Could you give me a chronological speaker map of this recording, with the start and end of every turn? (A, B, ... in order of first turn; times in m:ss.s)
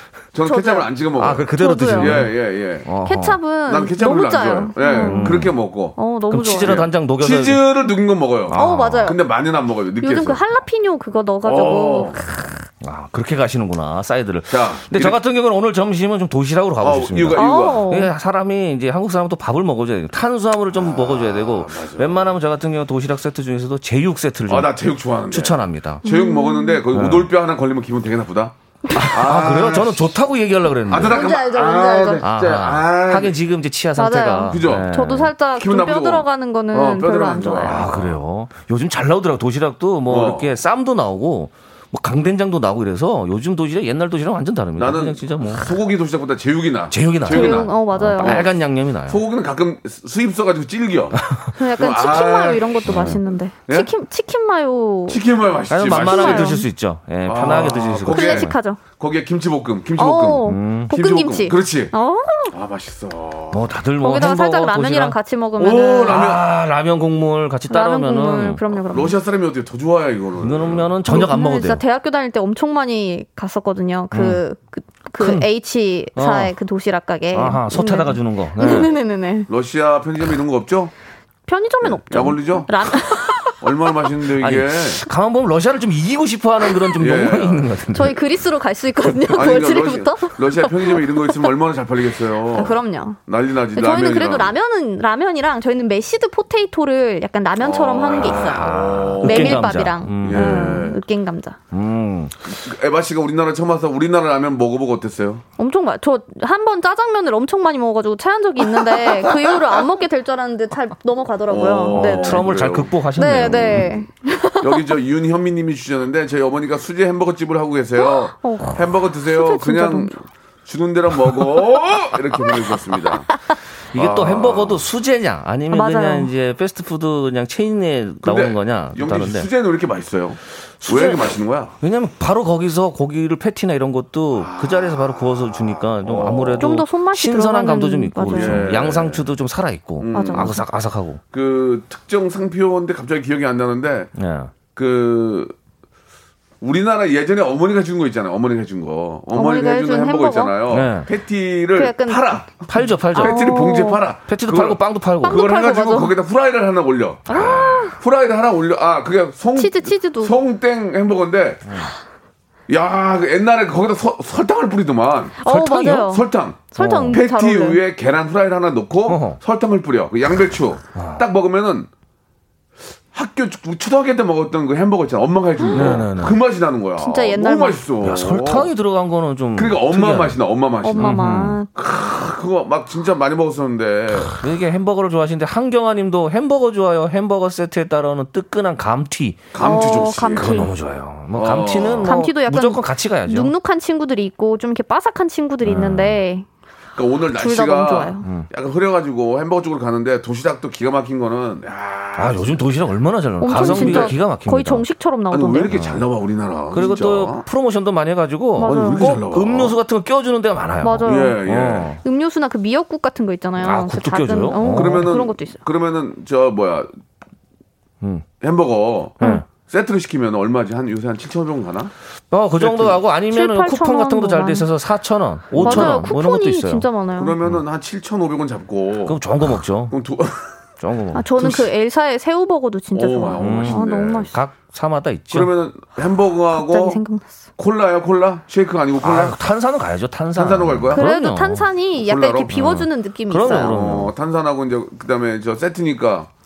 0:00.3-0:02.9 A
0:00.4-0:00.9 B
0:01.2-0:02.3 C
0:01.6-0:02.2 B
0:02.8-0:03.4 C
0:03.0-0:05.4 B
0:03.7-0:06.0 A
0:05.0-0:05.5 C
0:06.0-0:06.8 B
0:06.3-0:07.6 C
0:06.6-0:10.4 A
0:08.5-0:09.1 C
0:08.5-0:09.2 B
0:10.0-0:12.7 B
0:11.4-0:12.2 A
0:12.8-0:24.7 C
0:14.5-0:15.2 A
0:16.8-0:17.8 A
0:17.3-0:18.1 B
0:20.8-0:22.3 A
0:24.5-0:30.2 A
0:25.3-0:26.0 C
0:26.0-0:26.8 B
0:26.9-0:27.3 C
0:28.9-0:31.2 C
0:30.9-0:33.4 A
0:31.1-0:32.2 B
0:32.2-0:35.3 C
0:34.0-0:37.9 B
0:34.5-0:34.9 A
0:35.6-0:38.2 A
0:37.6-0:45.7 C
0:40.1-0:40.5 A
0:44.8-0:48.6 A
0:46.9-0:49.2 C
0:47.3-0:48.4 B
0:49.1-0:51.2 A
0:51.2-0:51.5 C
0:51.6-0:55.2 B
0:51.8-0:53.9 A
0:52.9-0:53.2 C
0:55.1-0:56.6 A
0:55.7-0:58.6 C
0:55.9-0:56.7 B
0:57.3-1:01.9 A
0:58.1-0:58.8 B
1:00.0-1:02.5 B
1:00.5-1:00.9 C
1:02.5-1:03.7 A
1:03.5-1:05.2 C
1:04.0-1:06.2 B
1:05.6-1:06.5 A
1:06.1-1:08.6 C
1:07.7-1:09.2 B
1:08.9-1:11.0 A
1:10.4-1:11.8 C
1:11.1-1:19.5 B
1:14.1-1:14.4 C
1:15.2-1:15.5 C
1:16.2-1:16.5 C
1:17.3-1:18.9 C
1:18.6-1:18.9 A
1:19.5-1:20.9 A
1:21.5-1:23.6 B
1:21.8-1:22.7 A
1:23.6-1:25.0 A
1:24.4-1:28.2 C
1:27.0-1:27.7 A
1:27.9-1:31.4 B
1:29.3-1:34.6 A
1:32.5-1:33.2 B
1:33.7-1:38.7 B
1:37.6-1:41.0 A
1:38.2-1:40.9 C
1:39.2-1:41.6 B
1:41.7-1:42.4 C
1:42.5-1:45.4 A
1:45.6-1:52.4 B
1:48.6-1:49.8 A
1:51.5-1:54.0 A
1:51.9-1:53.9 C
1:53.2-1:54.8 B
1:54.6-2:03.3 A
1:58.0-2:00.2 B
2:03.9-2:04.8 A
2:03.9-2:09.5 C
2:05.7-2:06.3 B
2:08.2-2:11.8 A
2:10.8-2:11.3 C
2:11.8-2:21.2 C
2:14.4-2:16.8 A
2:16.6-2:18.7 B
2:18.3-2:19.3 A
2:20.0-2:20.6 A
2:20.1-2:20.6 B
2:21.3-2:24.1 A
2:24.2-2:24.5 C
2:24.7-2:25.6 A
2:26.6-2:41.7 A
2:29.3-2:30.6 B
2:30.7-2:31.1 C
2:31.8-2:32.3 B
2:32.7-2:33.5 C
2:33.2-2:34.0 B
2:34.3-2:35.4 C
2:35.2-2:36.2 B
2:37.3-2:38.0 B
2:37.4-2:37.6 C
2:39.6-2:40.4 B
2:42.7-2:51.9 A
2:45.4-2:47.8 B
2:45.5-2:46.1 C
2:46.8-2:47.2 C
2:49.1-2:49.4 C
2:51.0-2:51.2 C
2:53.1-2:58.7 A
2:55.6-2:55.9 B
2:55.7-2:56.4 C
2:57.0-2:57.8 B
2:58.0-3:00.4 C
2:59.6-3:01.2 A
3:00.8-3:01.7 B
3:01.0-3:01.6 C
3:01.8-3:04.4 A
3:04.3-3:09.5 C
3:09.5-3:10.7 A
3:09.6-3:10.7 B
3:10.4-3:13.5 C
3:11.3-3:12.2 A
3:12.0-3:16.5 B
3:15.6-3:16.2 C
3:17.0-3:22.7 A
3:17.4-3:18.3 B
3:22.2-3:24.8 C
3:23.4-3:25.7 B
3:23.5-3:24.2 A
3:25.3-3:27.4 A
3:25.7-3:26.0 C
3:26.7-3:32.0 C
3:28.6-3:29.1 B
3:28.6-3:29.8 A
3:30.8-3:31.4 B
3:31.0-3:32.0 A
3:32.0-3:35.6 B
3:33.6-3:35.1 C
3:34.7-3:36.9 A
3:38.4-3:41.9 A
3:42.3-3:46.9 C
3:42.6-3:43.0 A
3:43.3-3:44.7 B
3:45.6-3:46.1 A
3:45.6-3:47.4 B
3:47.2-3:49.2 A
3:49.1-3:50.0 C
3:49.9-3:50.5 A
3:50.8-3:51.5 C
3:51.2-3:54.4 B
3:51.4-3:51.7 A
3:52.9-3:54.3 A
3:53.4-3:55.5 C
3:55.3-3:57.0 A
3:56.5-3:57.4 B
3:57.6-3:59.4 A
3:59.0-4:01.7 C
4:00.4-4:01.0 A
4:00.9-4:03.8 B
4:02.0-4:02.6 A
4:02.5-4:04.1 C
4:03.4-4:06.3 A